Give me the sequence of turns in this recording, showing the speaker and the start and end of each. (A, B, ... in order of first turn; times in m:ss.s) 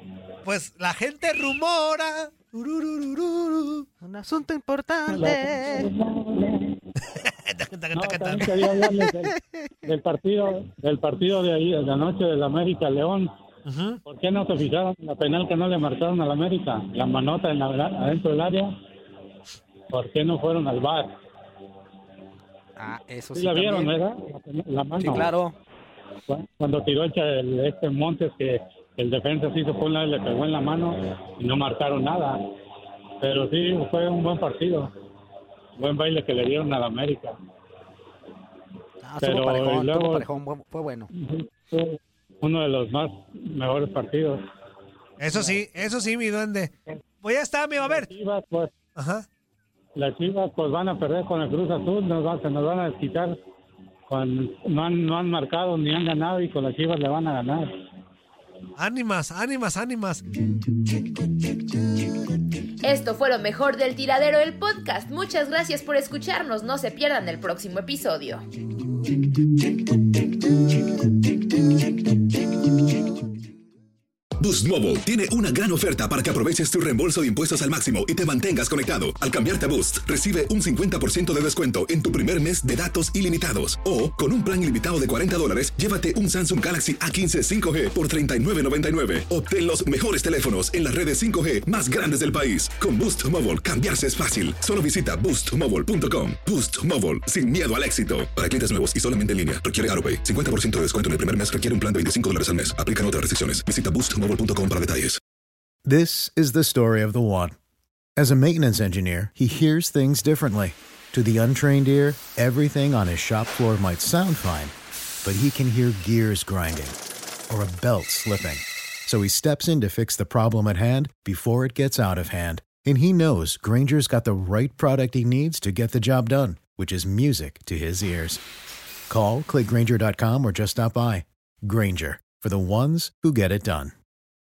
0:00.4-0:03.9 A
0:04.0-0:05.9 B
0:05.1-0:06.8 C
0:07.0-0:08.8 A
0:07.9-0:09.3 C
0:09.1-0:09.4 B
0:09.9-0:13.3 C
0:13.7-0:14.0 A
0:14.1-0:18.8 C
0:19.9-0:21.1 C
0:22.8-0:23.9 B
0:23.4-0:25.3 C
0:25.0-0:25.6 B
0:26.3-0:32.4 C
0:33.2-0:34.9 C
0:35.8-0:37.4 C
0:39.0-0:41.1 B
0:39.2-0:40.3 C
0:41.1-0:44.4 C
0:45.2-0:48.1 A
0:47.8-0:48.8 C
0:49.0-0:49.3 A
0:50.0-0:53.4 C
0:54.1-0:57.7 C
0:58.8-1:00.2 A
1:02.8-1:08.4 D
1:14.4-1:45.2 E
1:45.8-1:47.6 F
1:48.2-1:54.7 F
1:55.2-1:57.0 F
1:57.5-2:08.4 F
2:09.1-2:13.9 F